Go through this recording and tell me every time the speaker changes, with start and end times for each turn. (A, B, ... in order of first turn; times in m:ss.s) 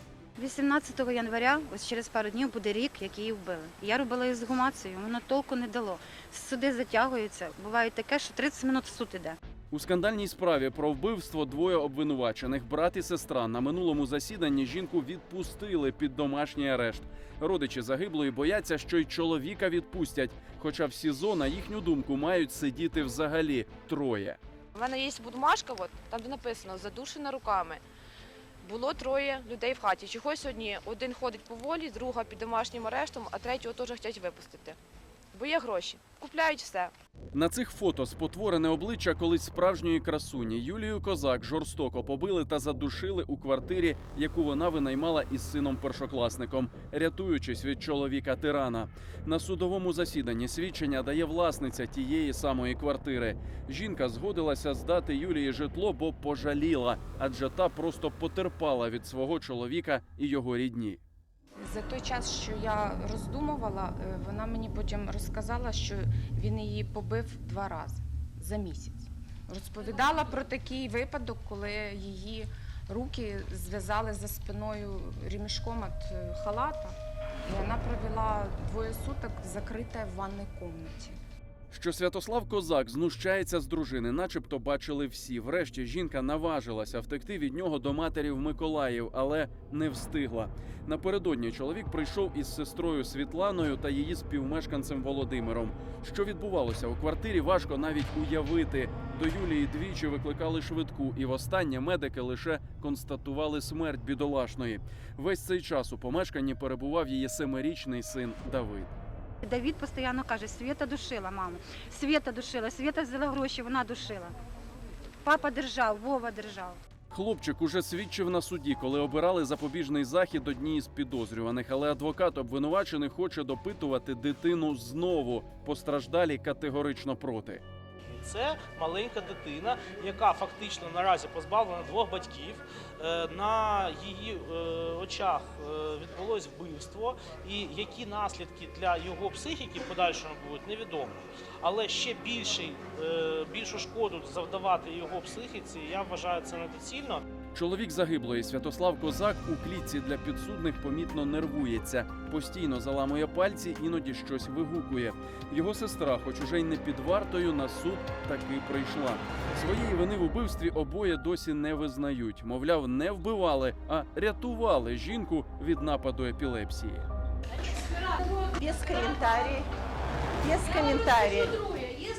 0:00.4-0:09.4 A
0:09.7-0:24.4 B
0:24.7-0:27.8 C
0:28.6-0:34.8 C
0:35.3-0:36.9 C
0:37.3-1:01.0 B
1:01.6-1:21.2 D
1:21.7-1:48.9 B
1:49.4-1:54.4 A
1:55.2-1:56.8 A
1:57.1-2:07.6 B
2:08.2-2:27.2 E
2:27.5-2:47.1 B
2:48.5-2:49.7 F
2:50.4-2:51.8 F